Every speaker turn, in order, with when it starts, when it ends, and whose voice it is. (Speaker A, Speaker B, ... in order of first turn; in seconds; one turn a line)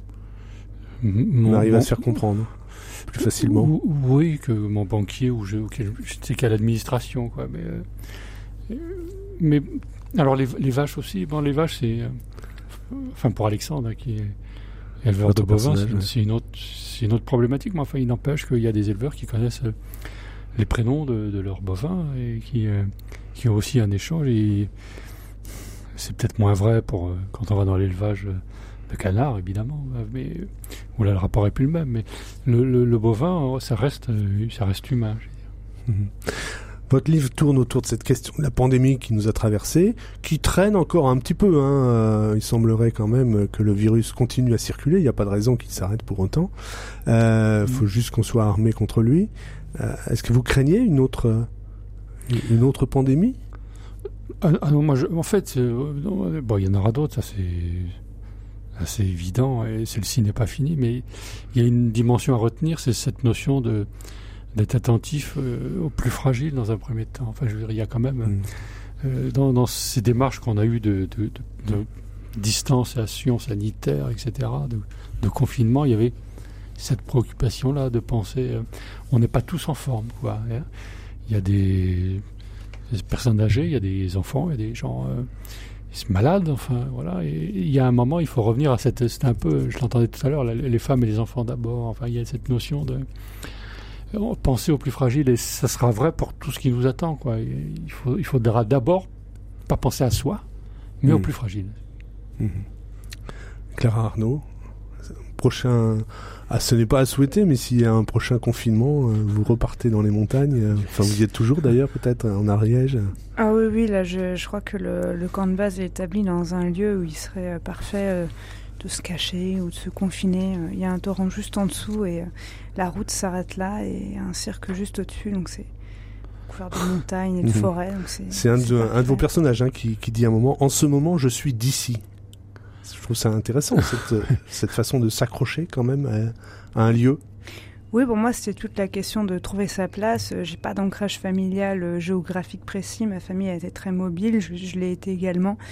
Speaker A: 1.0-2.2
Speaker B: 1.4-2.5
Speaker B: 3.1-3.7
Speaker A: 3.1-7.9
Speaker A: 8.7-12.2
Speaker A: 12.9-14.4
Speaker A: 15.0-19.8
Speaker B: 15.3-16.1
Speaker A: 20.6-24.7
Speaker A: 25.9-35.4
Speaker B: 35.9-46.5
Speaker B: 47.0-51.5
Speaker B: 52.3-53.4
Speaker A: 54.4-58.0
Speaker A: 58.8-63.9
Speaker A: 64.5-76.1
Speaker A: 76.8-80.7
Speaker A: 81.3-82.2
Speaker A: 82.9-85.3
Speaker A: 85.9-93.5
Speaker A: 94.1-99.1
Speaker A: 99.7-100.4
Speaker A: 101.0-101.8
Speaker B: 102.4-102.7
Speaker B: 103.7-104.5
Speaker B: 105.3-113.1
Speaker C: 113.4-125.7
Speaker C: 126.5-129.2
Speaker B: 127.4-127.7
Speaker B: 128.3-132.0
Speaker B: 132.8-137.2
Speaker C: 137.9-145.6